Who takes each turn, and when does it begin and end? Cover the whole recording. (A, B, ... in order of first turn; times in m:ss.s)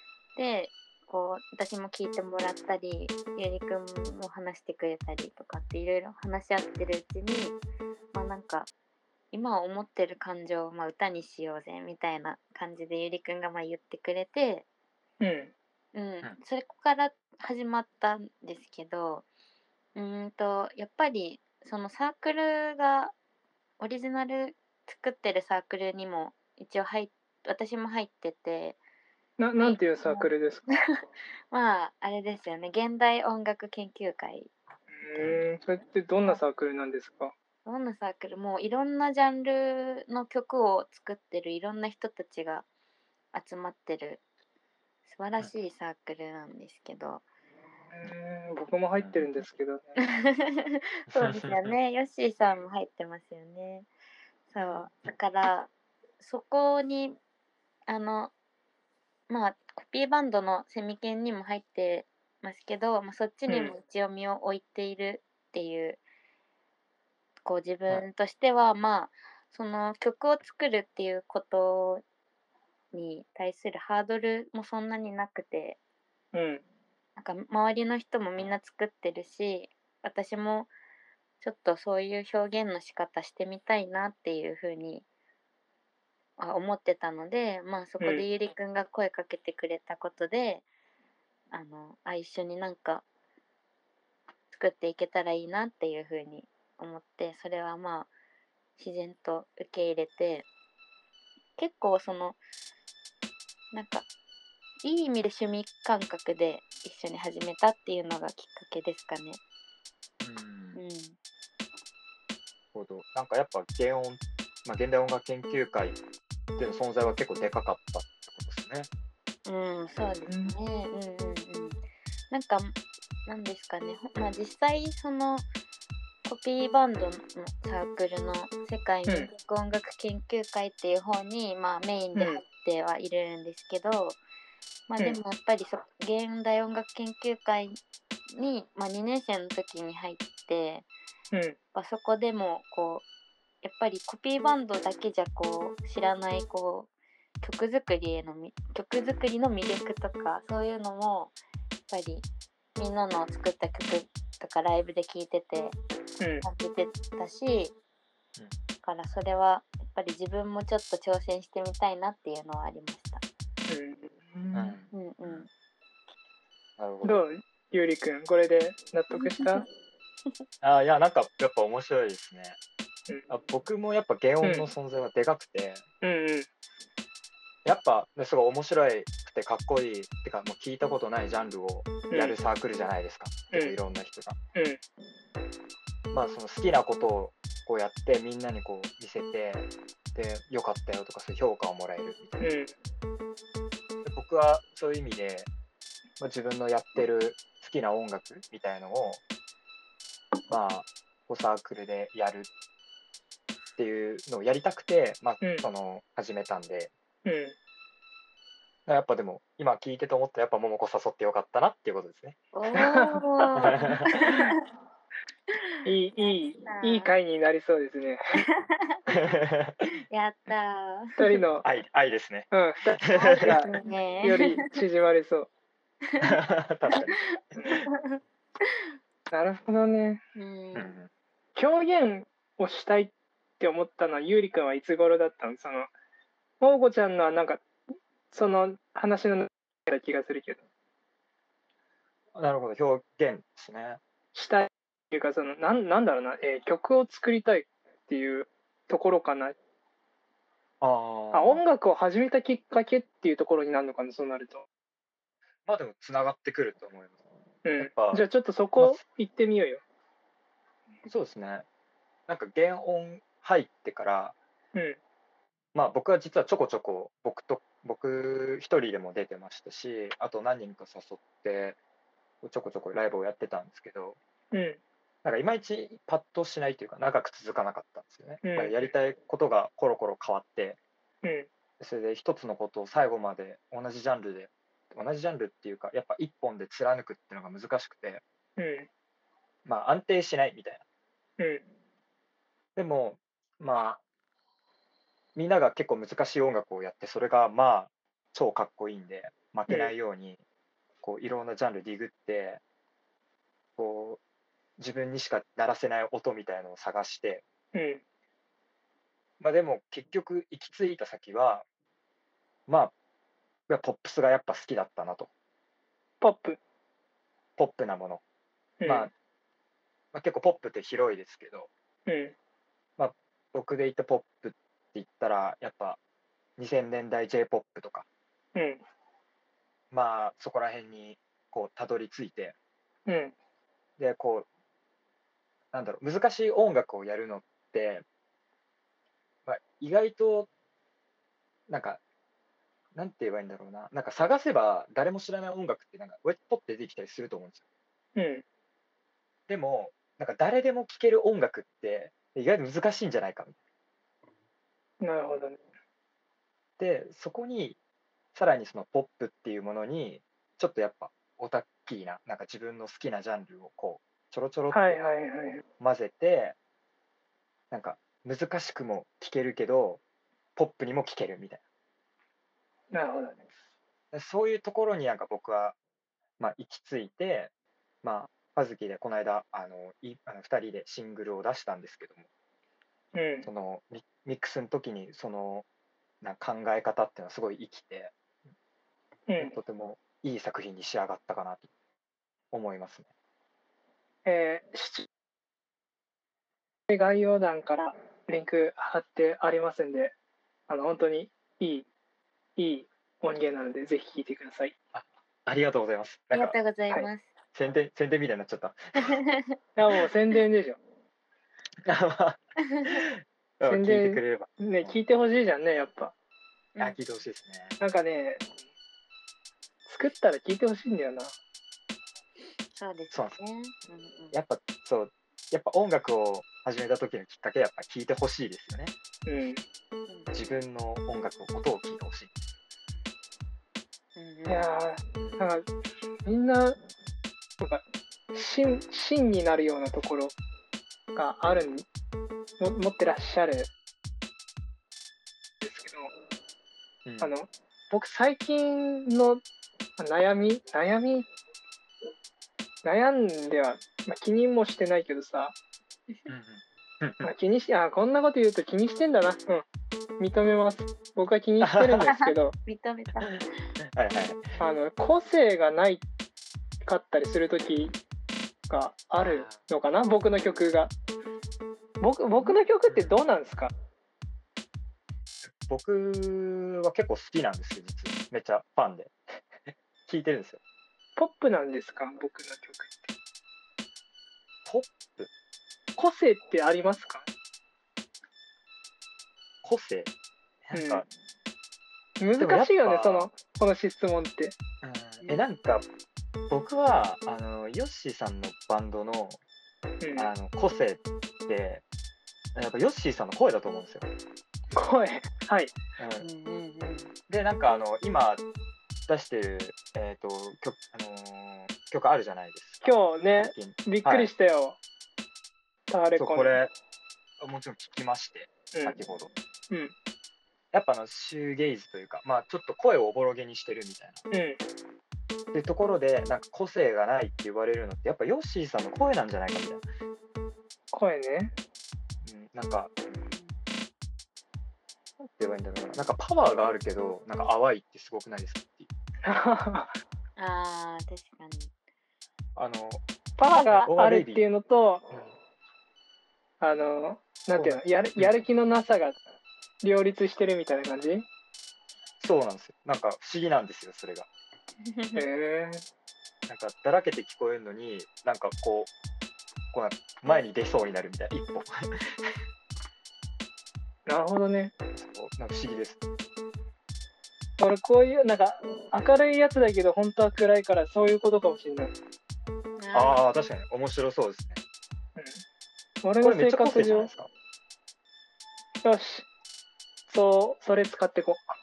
0:00.4-0:07.6 A
0:08.1-0:08.7 A
0:09.3-0:14.7 A
0:15.2-0:15.5 B
0:15.9-0:19.2 A
0:20.0-0:23.2 A
0:23.8-0:28.8 A
0:29.4-0:30.7 B
0:29.6-0:30.8 A
0:31.5-0:34.5 A
0:34.9-0:37.3 B
0:37.6-0:42.7 A
0:43.3-0:44.2 A
0:45.0-0:47.2 A
0:47.9-0:50.0 B
0:49.0-0:49.4 C
0:50.0-0:53.9 A
0:51.1-0:51.7 C
0:54.5-0:57.2 A
0:57.9-0:58.3 A
0:59.3-1:06.0 A
1:03.5-1:03.8 B
1:07.4-1:12.0 A
1:12.9-1:15.8 A
1:16.3-1:16.6 B
1:17.2-1:20.7 A
1:21.4-1:25.1 A
1:26.4-1:30.6 A
1:28.0-1:28.3 B
1:31.5-1:33.0 A
1:34.5-1:38.1 A
1:38.8-1:40.5 A
1:41.6-1:42.4 A
1:43.7-1:44.1 A
1:44.8-1:49.4 A
1:50.2-1:50.8 C
1:50.8-1:51.2 A
1:52.7-1:56.0 C
1:56.6-1:58.9 C
1:59.4-2:05.5 A
2:00.3-2:00.6 B
2:06.2-2:14.2 A
2:12.2-2:12.4 B
2:14.9-2:17.8 A
2:18.3-2:20.9 A
2:21.7-2:23.1 A
2:23.6-2:26.9 A
2:27.4-2:31.3 A
2:31.9-2:35.8 A
2:36.2-2:36.5 B
2:36.4-2:37.7 A
2:38.8-2:43.2 A
2:43.7-2:44.8 B
2:44.5-2:45.4 C
2:44.9-2:45.5 A
2:46.8-2:47.2 C
2:47.0-2:49.6 B
2:49.2-2:49.6 A
2:50.6-2:52.6 C
2:53.3-2:55.8 C
2:54.4-2:54.7 B
2:56.0-2:56.5 B
2:57.6-3:04.4 C
3:02.1-3:02.4 B
3:03.5-3:03.8 B
3:06.1-3:12.4 C
3:12.4-3:12.7 B
3:14.0-3:15.5 C
3:16.2-3:19.2 C
3:20.5-3:22.5 C
3:23.8-3:26.9 C
3:25.4-3:25.7 B
3:27.2-3:27.6 B
3:28.9-3:32.4 C
3:32.5-3:34.6 A
3:32.8-3:33.5 B
3:33.6-3:34.1 C
3:34.1-3:34.4 B
3:35.5-3:37.2 A
3:35.8-3:38.4 B
3:38.5-3:39.0 A
3:39.1-3:39.9 C
3:40.1-3:41.2 A
3:41.2-3:41.6 B
3:41.6-3:42.5 C
3:42.5-3:45.5 B
3:43.0-3:43.6 C
3:43.2-3:44.6 A
3:46.2-3:47.1 C
3:46.9-3:48.7 A
3:49.3-3:50.2 B
3:50.4-3:51.0 A
3:50.7-3:51.1 C
3:51.6-3:55.9 B
3:56.6-3:57.7 B
3:58.3-4:00.6 B
4:02.3-4:04.0 C
4:04.3-4:09.6 B
4:10.8-4:11.6 C
4:11.3-4:14.6 B
4:15.7-4:17.2 C
4:17.6-4:19.8 B
4:17.8-4:18.2 C
4:21.1-4:21.7 C
4:22.3-4:24.4 C
4:25.7-4:31.8 C
4:32.4-4:34.2 C
4:34.5-4:34.8 B
4:35.2-4:40.8 C
4:38.4-4:38.9 B
4:41.8-4:48.2 C
4:48.6-4:48.9 B
4:49.7-4:50.8 C
4:52.8-4:54.0 C
4:55.4-5:00.4 C
4:59.7-4:59.9 B
5:01.0-5:02.6 C
5:03.8-5:04.2 C
5:04.8-5:07.4 C
5:07.7-5:08.0 B
5:09.4-5:11.7 C
5:12.7-5:12.9 C
5:13.7-5:15.3 C
5:16.2-5:16.6 B
5:17.6-5:18.2 C
5:18.8-5:19.1 B
5:18.8-5:19.1 C
5:20.1-5:21.7 C
5:22.1-5:22.4 B
5:23.0-5:26.0 C
5:26.6-5:28.1 C
5:28.6-5:28.8 B
5:29.9-5:32.6 C
5:33.1-5:33.3 B
5:34.0-5:34.5 C
5:35.7-5:38.0 C
5:39.5-5:40.5 C
5:41.7-5:42.0 C
5:43.0-5:47.6 C
5:48.2-5:48.4 B
5:49.5-5:53.6 C
5:55.0-5:55.6 B
5:56.8-5:57.8 C
5:58.3-6:05.0 C
6:04.7-6:05.6 B
6:05.8-6:06.6 C
6:07.7-6:10.0 C
6:10.6-6:11.6 C
6:12.9-6:13.4 B
6:14.1-6:15.8 C
6:16.4-6:17.5 C
6:18.0-6:22.2 C
6:23.2-6:23.5 B
6:23.4-6:25.7 C
6:26.2-6:28.2 C
6:29.3-6:29.6 B
6:29.4-6:31.7 C
6:32.5-6:33.1 C
6:34.3-6:35.1 B
6:36.9-6:40.1 B
6:40.7-6:41.9 B
6:42.6-6:44.7 B
6:44.9-6:46.6 C
6:46.3-6:47.3 A
6:47.5-6:49.2 C
6:49.8-6:50.8 B
6:51.9-6:55.0 C
6:53.6-6:56.1 B
6:56.8-6:57.8 C
6:57.8-6:58.4 B
6:59.9-7:01.3 B
7:02.8-7:04.4 A
7:03.1-7:03.4 C
7:04.3-7:08.9 C
7:09.3-7:09.6 B
7:10.1-7:10.3 A
7:10.3-7:12.3 C
7:14.2-7:14.6 A
7:14.5-7:15.6 B
7:16.3-7:16.8 B
7:17.6-7:20.4 B
7:21.2-7:21.9 B
7:22.6-7:23.7 B
7:25.6-7:26.1 B
7:27.1-7:27.3 C
7:27.2-7:29.4 B
7:30.0-7:31.3 B
7:32.8-7:35.6 B
7:36.3-7:37.3 C
7:37.2-7:39.6 B
7:40.2-7:42.6 B
7:41.6-7:42.1 C
7:42.0-7:43.6 A
7:43.9-7:44.6 C
7:44.6-7:46.0 B
7:46.8-7:48.0 B
7:48.7-7:50.9 B
7:49.2-7:49.6 C
7:52.0-7:53.7 B
7:52.9-7:53.2 C
7:55.4-7:59.2 C
7:59.7-8:00.6 C
8:01.2-8:03.1 B
8:04.7-8:05.3 C
8:06.0-8:07.3 B
8:09.6-8:10.1 C
8:10.7-8:11.1 C
8:10.7-8:11.0 B
8:12.2-8:14.5 B
8:12.4-8:13.3 C
8:14.8-8:15.8 C
8:16.5-8:19.4 C
8:20.0-8:20.3 B
8:20.2-8:21.8 C
8:22.6-8:24.1 C
8:24.8-8:25.8 B
8:26.0-8:26.3 C
8:26.2-8:27.1 A
8:27.3-8:28.4 C
8:29.1-8:34.3 C
8:32.8-8:34.8 B
8:35.9-8:36.6 B
8:36.2-8:36.7 C
8:37.4-8:39.3 C
8:38.7-8:39.0 B
8:40.7-8:44.2 C
8:44.3-8:44.6 B
8:45.5-8:49.8 C
8:50.9-8:51.5 B
8:52.2-8:52.9 C
8:53.1-8:53.6 A
8:55.4-8:58.9 C
8:59.2-8:59.9 B
9:00.4-9:01.7 A
9:02.6-9:03.0 C
9:03.4-9:05.1 B
9:03.7-9:04.4 C
9:06.6-9:09.2 B
9:07.6-9:08.4 C
9:09.8-9:11.3 B
9:12.2-9:14.3 C
9:14.8-9:15.2 A
9:15.2-9:15.8 B
9:16.5-9:18.9 C
9:19.7-9:22.3 C
9:24.1-9:24.7 B
9:24.9-9:26.0 C
9:27.6-9:31.9 B
9:32.8-9:33.2 A
9:32.9-9:34.6 C
9:35.2-9:35.4 B
9:36.0-9:37.1 B
9:36.2-9:37.3 C
9:38.8-9:39.3 B
9:40.1-9:41.4 B